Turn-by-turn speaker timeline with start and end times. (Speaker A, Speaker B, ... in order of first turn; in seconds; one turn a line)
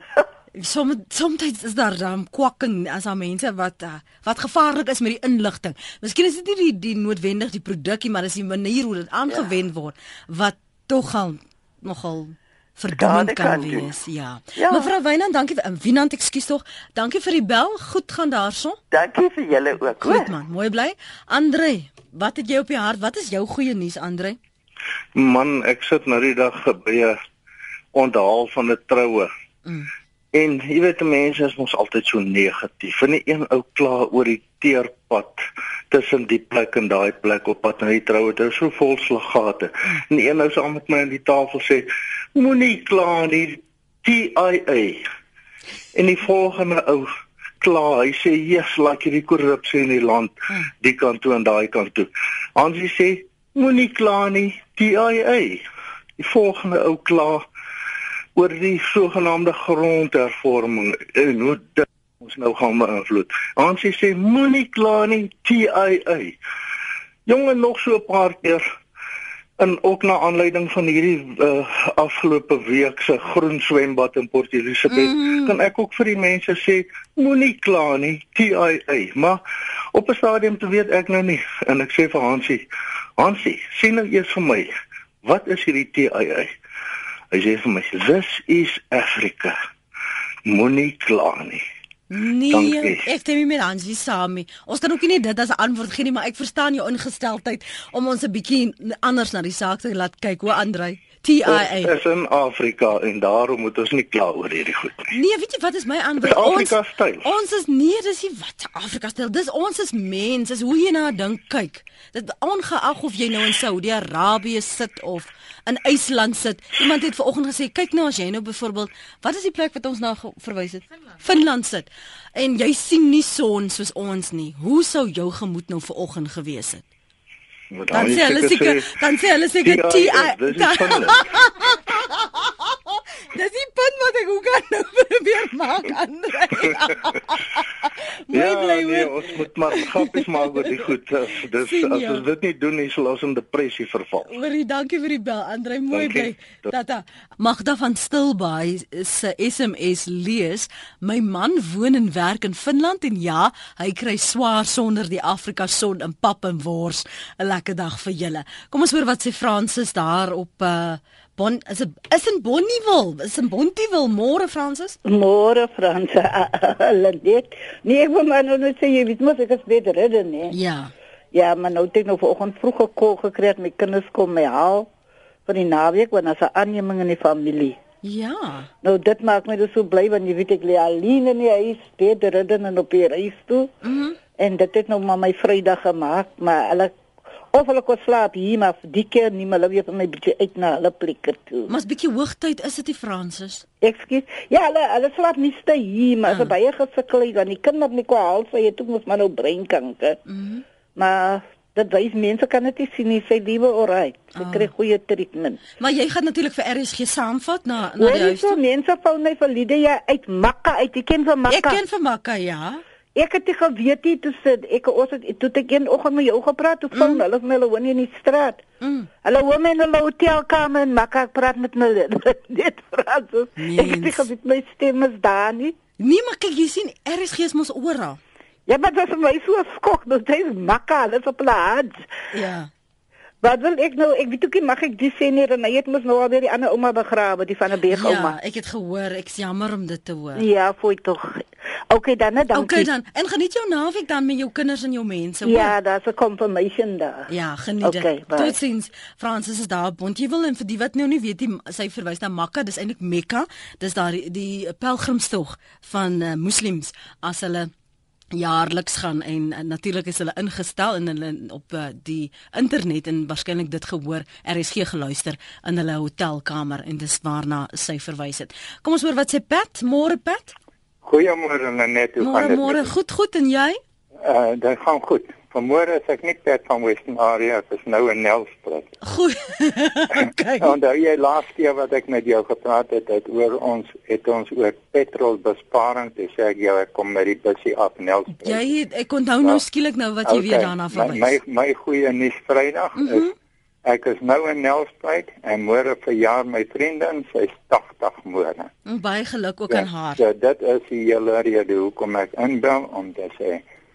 Speaker A: 0.6-18.8
Speaker B: 12.9-13.9
Speaker B: 14.6-14.9
Speaker B: 18.9-20.3
Speaker A: 20.0-24.4
Speaker C: 25.1-27.2
Speaker C: 27.9-29.3
Speaker C: 30.3-45.0
Speaker C: 45.9-47.1
Speaker C: 47.6-55.6
Speaker C: 56.2-57.5
Speaker C: 58.4-66.4
Speaker C: 67.3-68.7
Speaker C: 69.6-79.4
Speaker A: 74.9-75.6
Speaker C: 79.9-82.7
Speaker C: 83.2-84.7
Speaker C: 85.2-86.5
Speaker C: 87.3-89.6
Speaker C: 90.5-91.6
Speaker A: 92.1-101.9
Speaker C: 92.5-93.1
Speaker C: 101.5-105.1
Speaker A: 105.1-126.8
Speaker C: 106.2-107.3
Speaker C: 127.7-128.9
Speaker A: 127.9-132.2
Speaker C: 129.6-131.3
Speaker A: 133.3-139.3
Speaker C: 138.3-144.3
Speaker A: 141.6-142.2
Speaker A: 144.3-165.0
Speaker C: 145.9-146.7
Speaker D: 165.1-170.6
Speaker A: 170.5-170.9
Speaker D: 171.3-174.9
Speaker D: 175.5-177.8
Speaker A: 178.0-178.7
Speaker D: 178.8-183.7
Speaker A: 183.8-184.2
Speaker D: 184.4-186.9
Speaker D: 187.5-191.7
Speaker A: 191.7-193.7
Speaker D: 193.8-200.2
Speaker A: 196.3-196.5
Speaker A: 200.3-200.6
Speaker D: 201.0-205.6
Speaker A: 204.3-204.7
Speaker A: 205.8-208.6
Speaker D: 208.0-211.8
Speaker A: 211.5-212.8
Speaker D: 213.2-218.6
Speaker A: 216.9-217.2
Speaker A: 218.8-219.1
Speaker D: 219.2-225.8
Speaker A: 223.6-224.3
Speaker A: 226.0-228.2
Speaker D: 228.7-232.1
Speaker A: 232.3-232.7
Speaker D: 233.4-238.4
Speaker A: 237.9-240.4
Speaker D: 240.4-242.9
Speaker A: 242.5-245.7
Speaker D: 245.4-247.3
Speaker A: 247.3-257.7
Speaker D: 247.8-248.6
Speaker A: 258.3-270.6
Speaker E: 271.0-272.9
Speaker A: 272.2-273.8
Speaker E: 274.2-278.9
Speaker A: 279.0-280.7
Speaker E: 280.6-288.7
Speaker A: 288.4-291.4
Speaker E: 290.3-293.3
Speaker A: 293.0-293.3
Speaker E: 293.9-298.7
Speaker A: 298.9-300.2
Speaker E: 299.7-303.6